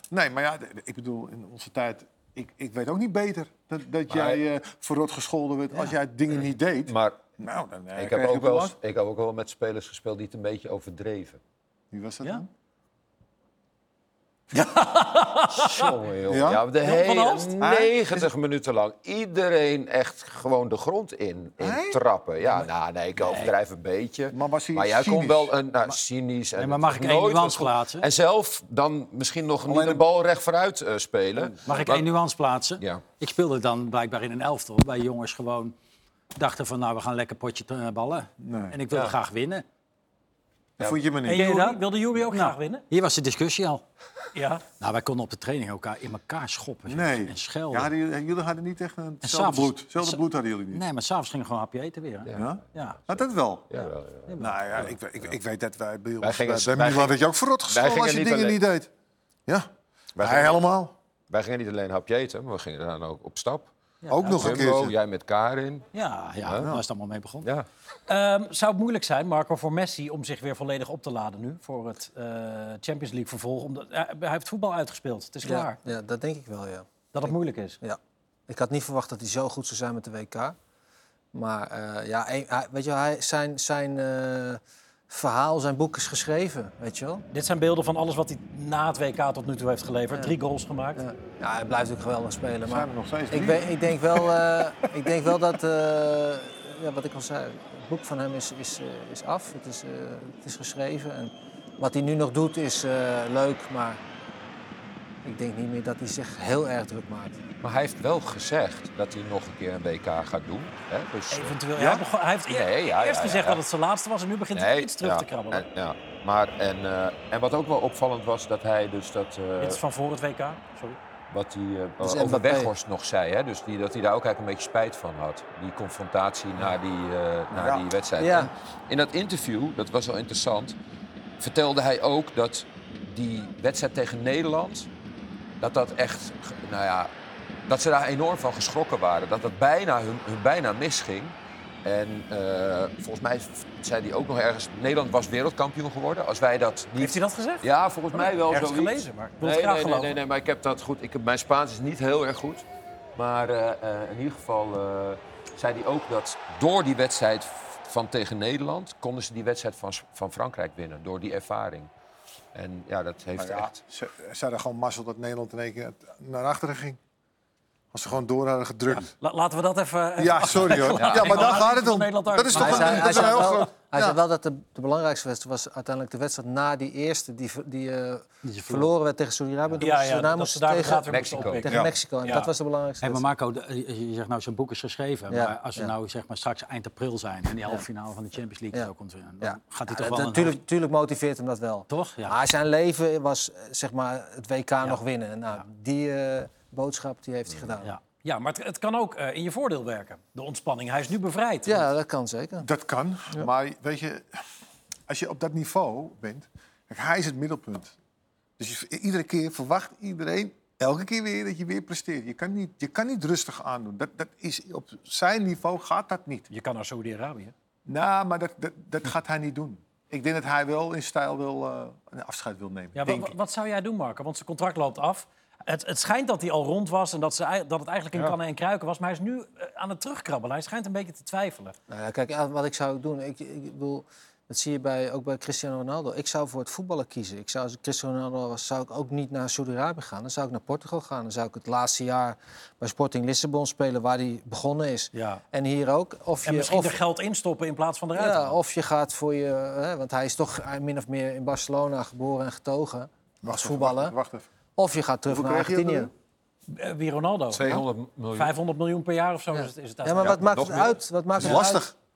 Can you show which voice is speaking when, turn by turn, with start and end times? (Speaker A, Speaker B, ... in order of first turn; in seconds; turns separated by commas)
Speaker A: 0.1-8.8, Speaker B: 4.1-4.4, Speaker B: 6.9-7.3, Speaker B: 8.0-11.4, Speaker A: 11.9-12.5, Speaker A: 14.6-14.8, Speaker C: 14.8-15.9, Speaker B: 15.6-32.1, Speaker A: 16.3-16.6, Speaker C: 16.8-17.5, Speaker A: 17.6-18.3, Speaker A: 21.6-22.0, Speaker D: 23.2-23.5, Speaker A: 24.3-25.6, Speaker D: 26.6-28.1, Speaker A: 29.6-30.1, Speaker D: 31.7-35.7, Speaker D: 36.4-39.6, Speaker A: 38.4-38.8, Speaker A: 40.8-41.8, Speaker C: 41.2-42.9, Speaker D: 42.3-43.8, Speaker C: 44.3-44.6, Speaker D: 44.8-47.9, Speaker A: 46.9-50.8, Speaker D: 49.2-53.0, Speaker B: 52.3-55.3, Speaker A: 52.3-53.9, Speaker D: 54.3-54.9, Speaker A: 54.4-58.9, Speaker B: 56.2-58.6, Speaker A: 59.5-60.9, Speaker B: 60.2-60.7, Speaker B: 61.3-63.7, Speaker A: 64.1-65.0, Speaker B: 64.2-65.9, Speaker D: 65.9-67.5, Speaker B: 66.4-66.8, Speaker C: 68.1-75.8, Speaker E: 75.4-80.6, Speaker C: 77.1-77.8, Speaker E: 81.3-87.2, Speaker C: 87.3-91.0, Speaker E: 91.0-104.0, Speaker A: 92.6-94.4, Speaker A: 95.0-95.3, Speaker E: 105.2-107.4, Speaker B: 107.6-111.7, Speaker C: 111.3-115.6, Speaker A: 111.8-112.0, Speaker B: 112.5-113.6, Speaker B: 114.5-119.8, Speaker C: 119.6-121.0, Speaker B: 121.3-130.8, Speaker E: 122.0-122.7, Speaker A: 127.5-127.8, Speaker E: 128.2-128.5, Speaker B: 131.4-134.9, Speaker B: 135.6-137.1, Speaker B: 137.7-161.9, Speaker C: 147.0-150.2, Speaker B: 162.5-163.8, Speaker A: 163.4-167.0, Speaker A: 167.9-169.1, Speaker C: 169.2-173.5, Speaker A: 170.2-174.2, Speaker B: 171.0-171.6, Speaker E: 172.6-183.3, Speaker D: 178.4-178.9, Speaker C: 179.8-182.5, Speaker B: 181.1-181.7, Speaker D: 183.0-190.6, Speaker E: 185.3-185.9, Speaker E: 189.4-197.9, Speaker D: 191.9-192.4, Speaker C: 198.2-201.8, Speaker E: 201.7-202.7, Speaker A: 202.6-204.3, Speaker A: 205.1-207.9, Speaker A: 208.6-216.5, Speaker C: 216.5-217.5, Speaker A: 217.9-223.3, Speaker C: 223.0-231.8, Speaker E: 231.9-247.0, Speaker C: 245.2-245.4, Speaker C: 246.4-248.5, Speaker E: 248.2-254.2, Speaker A: 253.4-254.5, Speaker E: 254.8-256.1, Speaker A: 255.3-256.1, Speaker C: 256.7-257.8, Speaker B: 257.5-258.5, Speaker C: 258.3-260.4, Speaker E: 259.5-261.8, Speaker B: 260.2-261.0, Speaker A: 261.4-261.9